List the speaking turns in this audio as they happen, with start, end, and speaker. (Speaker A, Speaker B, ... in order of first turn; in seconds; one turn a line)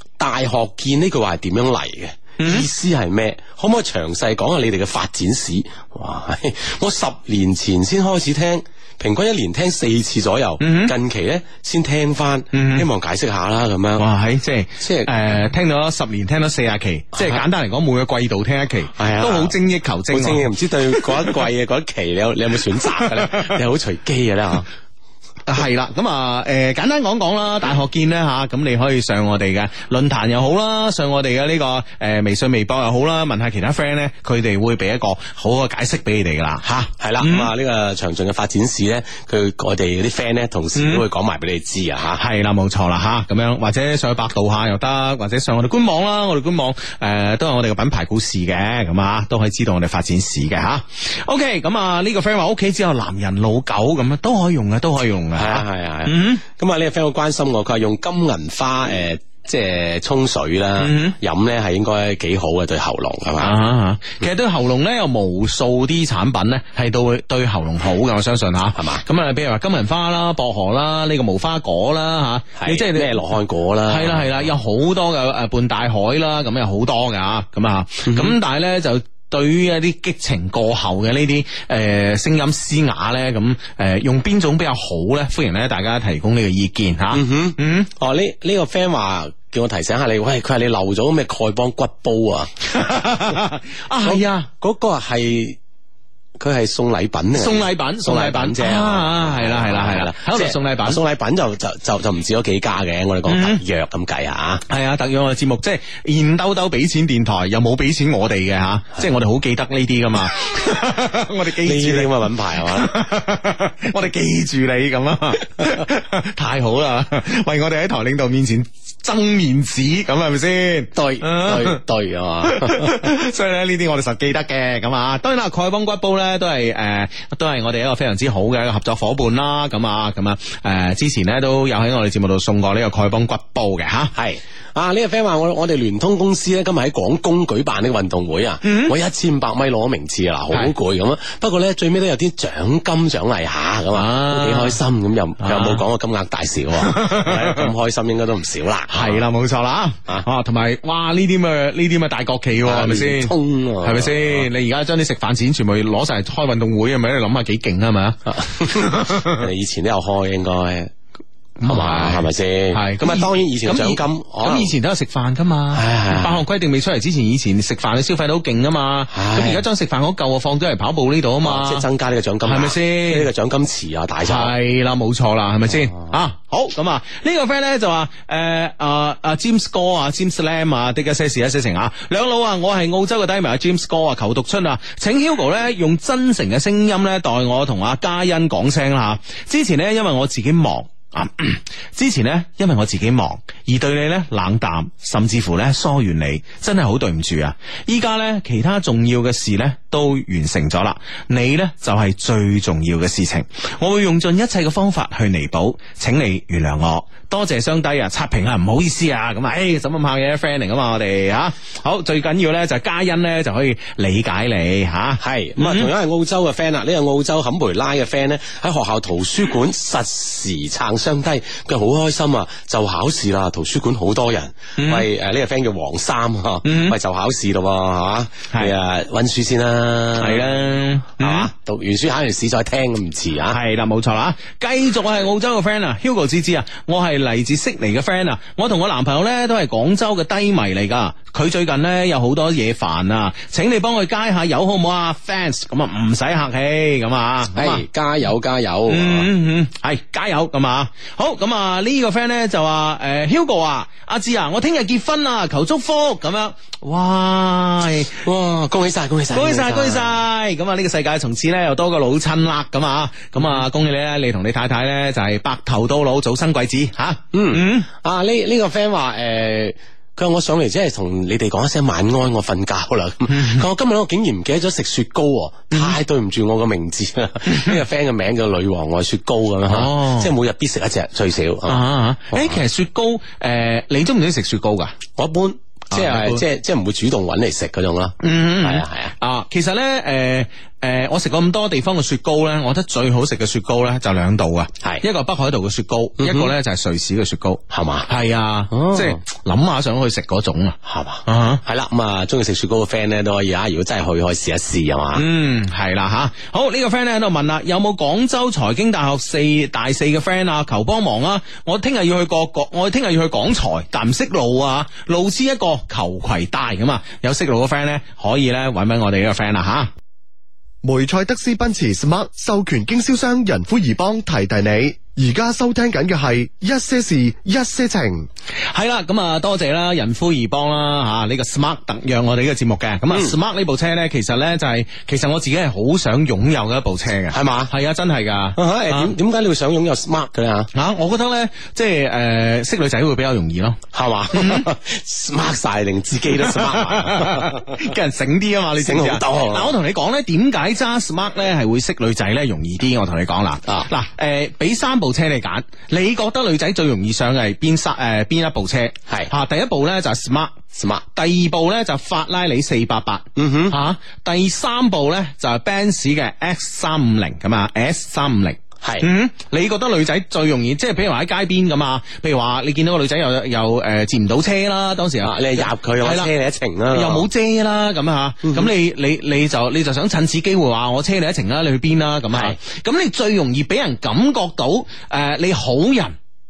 Speaker A: 0.2-14.1
Speaker B: 2.4-2.7
Speaker B: 10.6-10.9
Speaker B: 12.5-12.9
Speaker B: 14.0-21.4
Speaker A: 14.8-15.1
Speaker A: 17.1-17.4
Speaker A: 19.0-19.6
Speaker A: 20.1-24.7
Speaker B: 23.0-23.5
Speaker B: 25.5-37.5
Speaker A: 36.7-42.2
Speaker B: 40.8-41.0
Speaker B: 42.2-56.4
Speaker A: 55.4-63.6
Speaker B: 60.8-61.2
Speaker B: 63.4-73.2
Speaker A: 68.8-69.0
Speaker A: 72.6-74.4
Speaker B: 73.9-87.9
Speaker A: 78.0-78.4
Speaker A: 87.1-92.5
Speaker B: 92.7-94.5
Speaker A: 94.0-95.6
Speaker A: 96.4-104.6
Speaker B: 97.3-101.0
Speaker B: 103.3-103.6
Speaker B: 104.7-121.8
Speaker A: 111.6-112.9
Speaker A: 121.0-123.1
Speaker B: 122.4-134.1
Speaker A: 134.2-149.2
Speaker B: 138.6-138.9
Speaker B: 143.9-144.8
Speaker B: 145.4-145.8
Speaker B: 146.8-147.7
Speaker B: 148.9-159.5
Speaker A: 152.6-154.5
Speaker A: 158.3-160.9
Speaker B: 161.6-171.8
Speaker A: 161.7-164.7
Speaker A: 165.7-166.4
Speaker A: 169.1-169.6
Speaker A: 171.4-174.5
Speaker B: 172.4-173.3
Speaker B: 174.2-215.9
Speaker A: 215.2-230.6
Speaker B: 224.8-225.1
Speaker B: 226.7-227.0
Speaker B: 230.2-231.5
Speaker A: 231.2-233.6
Speaker B: 233.5-247.8
Speaker A: 247.6-249.3
Speaker B: 248.9-258.2
Speaker A: 258.2-260.1
Speaker B: 259.3-267.9
Speaker A: 267.3-282.6
Speaker B: 273.3-273.6
Speaker B: 277.5-277.8
Speaker B: 279.7-280.3
Speaker B: 281.7-285.0
Speaker A: 285.2-289.1
Speaker B: 285.9-286.4
Speaker B: 288.2-301.6
Speaker A: 296.2-296.5
Speaker A: 297.7-298.1
Speaker A: 298.7-299.2
Speaker A: 300.9-305.2
Speaker B: 305.1-319.9
Speaker C: 320.8-328.3
Speaker B: 328.7-339.1
Speaker A: 337.3-337.7
Speaker A: 338.6-340.7
Speaker B: 340.7-343.8
Speaker A: 343.9-347.9
Speaker B: 344.3-344.7
Speaker B: 346.4-360.6
Speaker A: 348.8-349.8
Speaker A: 360.8-361.0
Speaker B: 361.1-376.3
Speaker A: 363.4-363.8
Speaker A: 368.8-369.1
Speaker A: 375.2-377.3
Speaker B: 376.9-386.2
Speaker A: 378.4-378.7